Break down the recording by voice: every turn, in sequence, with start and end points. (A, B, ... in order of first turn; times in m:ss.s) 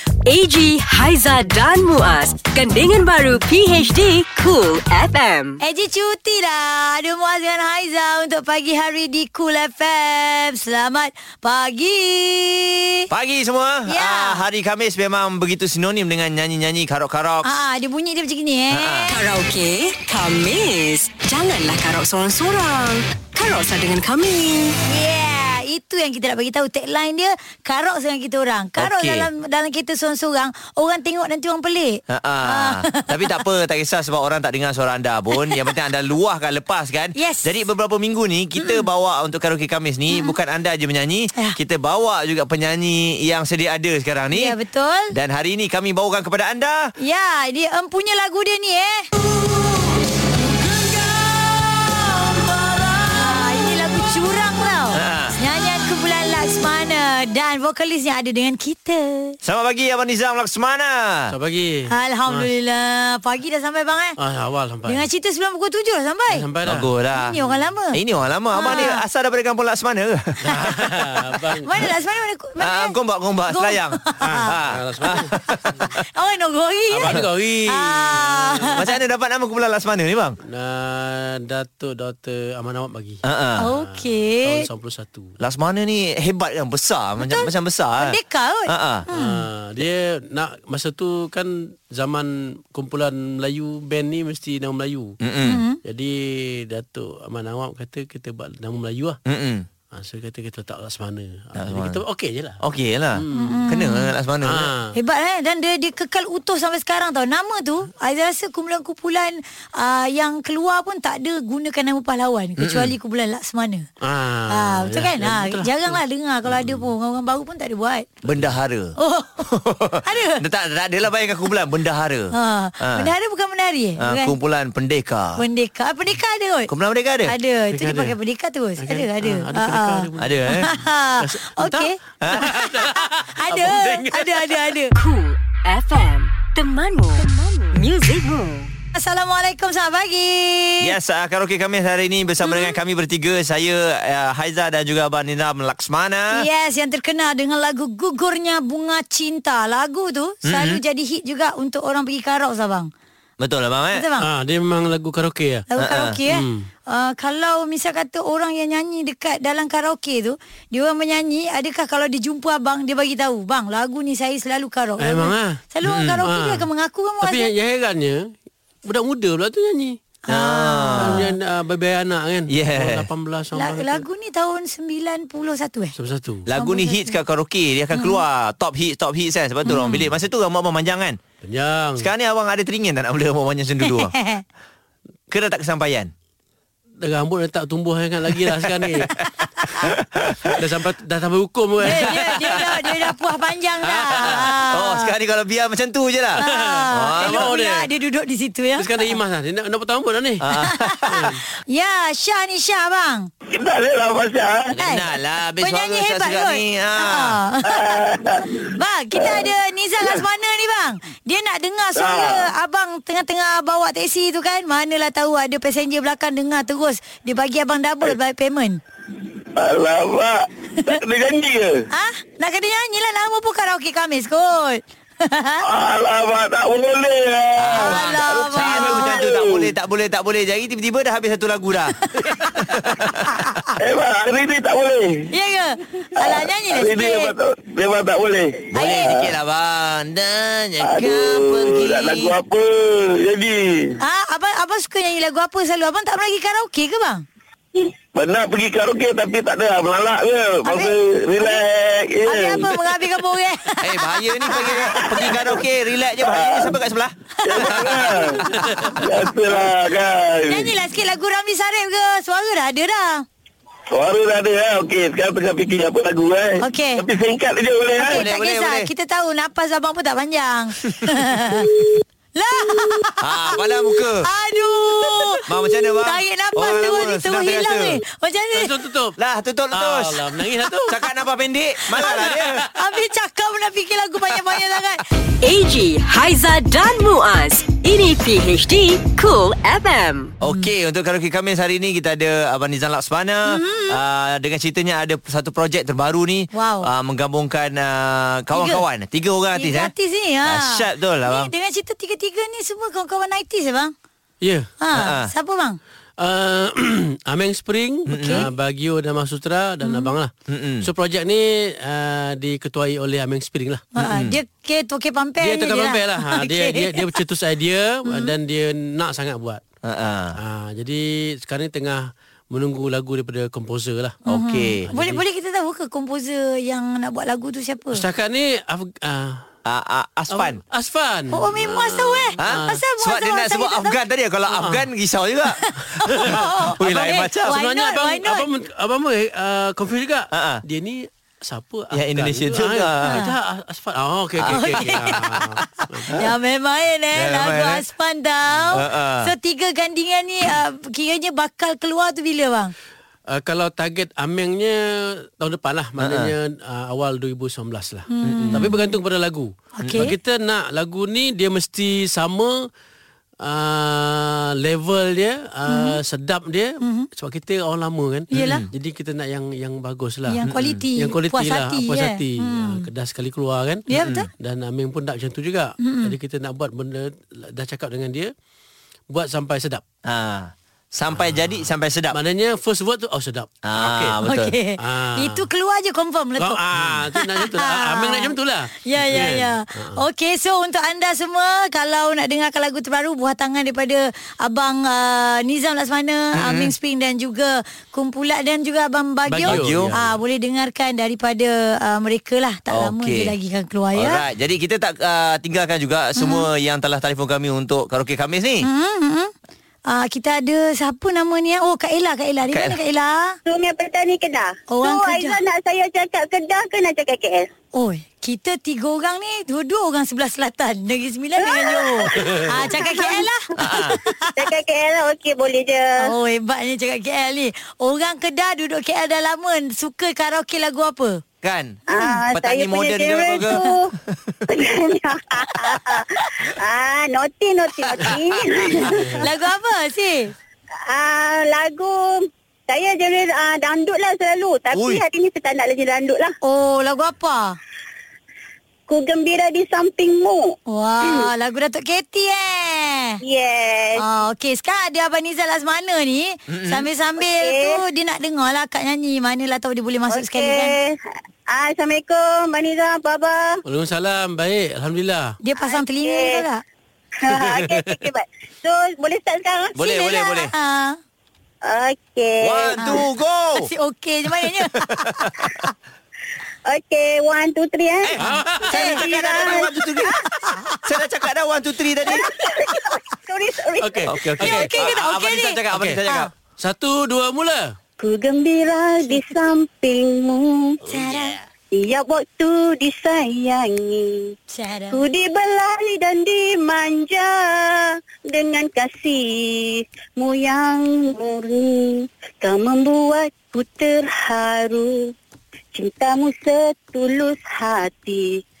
0:00.2-0:05.6 A
0:05.6-0:13.0 B
0:13.1-0:17.6 C
0:13.9-0:14.4 B
0:17.4-0:19.2 B
0:18.7-0:19.1 C
0:19.1-0:24.8 A
0:24.8-0:33.4 B
0:28.8-0:29.3 C
0:32.1-0:44.6 C
0:35.4-0:35.7 B
0:37.2-0:37.5 B
0:38.6-0:38.8 B
0:44.3-0:45.1 B
0:45.1-0:46.9 C
0:47.0-0:49.0 B
0:50.6-0:52.3 B
0:53.0-0:59.4 B
0:54.9-0:55.4 C
0:59.4-1:01.3 C
1:01.3-1:02.5 D
1:01.9-1:04.2 B
1:04.2-1:05.1 D
1:04.8-1:06.4 B
1:06.3-1:07.6 D
1:06.6-1:07.4 C
1:07.1-1:08.0 B
1:07.9-1:11.2 C
1:08.5-1:09.0 B
1:10.4-1:11.7 D
1:11.6-1:12.9 B
1:12.6-1:16.0 C
1:13.5-1:14.5 B
1:14.2-1:15.9 D
1:16.0-1:18.8 B
1:16.9-1:18.8 D
1:18.7-1:20.4 C
1:20.4-1:25.3 D
1:23.2-1:23.6 C
1:23.6-1:24.7 B
1:25.4-1:28.2 C
1:27.2-1:29.4 B
1:28.7-1:29.0 C
1:29.1-1:35.2 D
1:35.2-1:35.6 C
1:35.4-1:35.8 B
1:35.8-1:39.2 D
1:39.2-1:39.7 C
1:39.9-1:42.6 D
1:41.5-1:42.0 C
1:42.6-1:44.7 C
1:43.1-1:43.6 D
1:43.3-1:44.1 B
1:44.4-1:45.0 D
1:44.9-1:53.9 B
1:52.6-1:52.9 C
1:54.0-1:56.0 D
1:54.5-1:58.2 B
1:58.2-2:03.1 C
1:59.0-1:59.5 B
2:00.0-2:00.4 B
2:02.3-2:04.3 B
2:04.0-2:05.4 C
2:05.4-2:06.7 B
2:06.7-2:07.3 C
2:07.2-2:10.0 B
2:07.7-2:08.2 D
2:08.8-2:14.7 D
2:10.2-2:10.7 C
2:10.5-2:14.9 B
2:12.2-2:12.6 C
2:14.9-2:18.7 A
2:18.9-2:20.9 B
2:20.8-2:26.4 C
2:22.4-2:22.8 B
2:26.3-2:32.9 B
2:30.4-2:30.8 C
2:33.4-2:34.0 C
2:33.9-2:34.3 B
2:34.2-2:35.6 D
2:35.7-2:47.5 B
2:35.8-2:36.2 C
2:36.3-2:36.7 D
2:45.0-2:45.6 D
2:45.8-2:46.2 C
2:46.2-2:46.7 D
2:47.2-2:48.3 D
2:48.8-2:50.0 D
2:50.3-2:51.2 B
2:50.3-2:51.3 C
2:51.0-2:54.0 D
2:52.5-2:53.1 C
2:53.5-2:56.0 B
2:56.0-2:56.5 D
2:56.4-3:01.2 C
2:56.5-2:57.2 B
2:57.9-2:58.2 B
2:59.6-3:00.1 B
3:01.4-3:02.1 D
3:02.0-3:04.1 C
3:03.8-3:04.4 B
3:05.3-3:06.1 C
3:07.0-3:09.1 D
3:08.4-3:10.5 C
3:10.5-3:12.6 D
3:11.8-3:15.1 B
3:11.8-3:13.0 C
3:13.8-3:14.5 D
3:14.2-3:17.5 C
3:16.4-3:17.9 D
3:16.4-3:19.1 B
3:18.8-3:20.5 D
3:20.4-3:21.3 C
3:20.6-3:23.3 B
3:21.1-3:21.4 D
3:23.5-3:24.7 E
3:24.7-3:27.4 C
3:24.7-3:25.1 B
3:25.6-3:28.0 B
3:27.7-3:29.5 E
3:28.7-3:38.8 B
3:32.0-3:32.5 E
3:39.6-3:41.8 E
3:41.9-3:45.6 B
3:45.6-3:49.7 E
3:47.6-3:52.0 C
3:47.7-3:49.2 B
3:52.0-3:52.4 B
3:52.5-3:53.4 C
3:53.2-3:53.7 B
3:53.8-3:55.3 E
3:55.3-3:57.3 B
3:56.2-3:59.3 E
3:58.7-4:02.4 C
3:58.7-3:59.1 B
4:00.8-4:04.0 E
4:04.0-4:07.2 B
4:08.1-4:12.8 E
4:10.6-4:11.6 B
4:12.2-4:15.6 B
4:13.8-4:18.9 C
4:15.1-4:15.5 E
4:16.2-4:16.8 E
4:17.4-4:18.5 E
4:17.5-4:18.1 B
4:18.6-4:18.9 D
4:19.0-4:20.7 E
4:20.4-4:23.2 B
4:23.9-4:28.2 E
4:26.6-4:27.0 B
4:28.0-4:31.7 B
4:28.0-4:28.9 C
4:32.4-4:38.7 B
4:33.2-4:34.3 C
4:35.4-4:38.0 C
4:38.5-4:39.1 D
4:39.2-4:42.7 C
4:39.7-4:41.0 D
4:41.9-4:42.7 D
4:42.0-4:45.0 B
4:45.4-4:50.3 A
4:50.4-4:59.9 C
4:53.5-4:54.0 B
4:56.5-4:56.9 B
4:58.5-4:58.8 B
4:59.6-5:03.9 B
5:00.4-5:01.5 C
5:04.4-5:04.7 D
5:04.8-5:05.8 B
5:04.9-5:05.3 C
5:06.2-5:13.9 D
5:08.1-5:08.5 C
5:08.2-5:08.5 B
5:09.8-5:10.1 B
5:10.5-5:10.9 C
5:13.9-5:17.1 B
5:14.0-5:14.4 C
5:15.4-5:19.6 D
5:18.0-5:18.3 B
5:19.8-5:20.4 C
5:20.3-5:24.2 D
5:24.2-5:28.0 B
5:24.3-5:24.8 C
5:24.8-5:25.2 D
5:27.9-5:29.4 D
5:29.6-5:30.6 C
5:30.3-5:32.8 D
5:31.3-5:34.0 B
5:32.4-5:37.6 C
5:34.5-5:34.8 D
5:35.5-5:38.5 B
5:36.0-5:36.4 D
5:37.4-5:46.2 D
5:40.3-5:40.6 C
5:41.9-5:43.2 C
5:43.0-5:43.3 B
5:44.4-5:45.2 C
5:44.5-5:52.7 B
5:47.1-5:47.8 C
5:48.7-5:49.3 C
5:53.3-6:02.7 D
5:56.0-5:56.3 C
5:58.1-5:58.9 B
5:58.2-5:58.7 C
5:59.8-6:00.1 B
5:59.8-6:00.1 C
6:03.4-6:10.4 D
6:05.6-6:06.0 B
6:06.8-6:07.1 B
6:08.3-6:08.7 B
6:08.3-6:08.7 C
6:10.3-6:12.9 B
6:10.4-6:10.8 C
6:11.0-6:18.3 D
6:13.9-6:14.3 B
6:13.9-6:14.2 C
6:15.8-6:16.1 B
6:19.1-6:19.8 D
6:20.0-6:22.2 C
6:21.2-6:24.2 D
6:23.6-6:24.5 C
6:24.2-6:26.6 B
6:24.8-6:25.4 D
6:26.4-6:30.0 D
6:27.2-6:28.3 B
6:28.8-6:44.2 B
6:36.3-6:36.7 C
6:39.2-6:40.2 D
6:39.4-6:40.0 C
6:42.7-6:43.3 C
6:43.9-6:48.7 C
6:46.2-6:46.5 B
6:48.6-6:49.3 B
6:49.9-6:53.4 B
6:52.5-6:52.8 C
6:53.5-6:57.5 F
6:54.7-6:55.4 B
6:57.7-7:04.5 B
7:01.4-7:03.3 F
7:02.1-7:02.6 D
7:03.6-7:04.0 C
7:04.4-7:06.1 F
7:06.0-7:11.2 B
7:11.4-7:11.8 C
7:11.9-7:13.9 F
7:11.9-7:12.2 B
7:12.3-7:14.4 C
7:14.5-7:19.2 F
7:15.6-7:16.5 C
7:17.8-7:19.0 C
7:18.9-7:19.1 D
7:19.2-7:20.3 B
7:20.9-7:26.3 F
7:24.7-7:25.0 C
7:26.4-7:27.6 B
7:28.9-7:30.5 F
7:30.7-7:33.2 B
7:33.2-7:34.0 F
7:34.0-7:40.8 B
7:36.5-7:36.8 C
7:37.2-7:37.8 F
7:40.1-7:41.0 F
7:41.5-7:43.6 F
7:43.6-7:45.4 D
7:45.4-7:46.6 B
7:45.6-7:46.4 F
7:47.2-7:49.9 F
7:47.2-7:48.0 D
7:49.8-7:50.5 C
7:49.8-7:51.0 B
7:51.6-7:53.0 F
7:52.4-7:53.7 C
7:52.8-7:53.0 B
7:53.6-7:55.7 B
7:54.4-7:55.5 C
7:56.7-7:58.2 F
7:58.0-8:00.1 C
7:58.2-7:58.8 D
7:58.2-7:59.0 B
7:58.7-7:59.7 F
8:00.3-8:00.8 B
8:00.8-8:02.2 C
8:02.0-8:04.1 F
8:03.8-8:04.7 D
8:04.1-8:06.3 C
8:04.4-8:06.3 B
8:05.7-8:06.0 D
8:06.6-8:07.7 D
8:08.0-8:10.8 F
8:10.9-8:11.4 B
8:10.9-8:11.3 C
8:11.7-8:14.3 F
8:14.5-8:15.0 B
8:14.9-8:24.9 F
8:25.7-8:28.3 F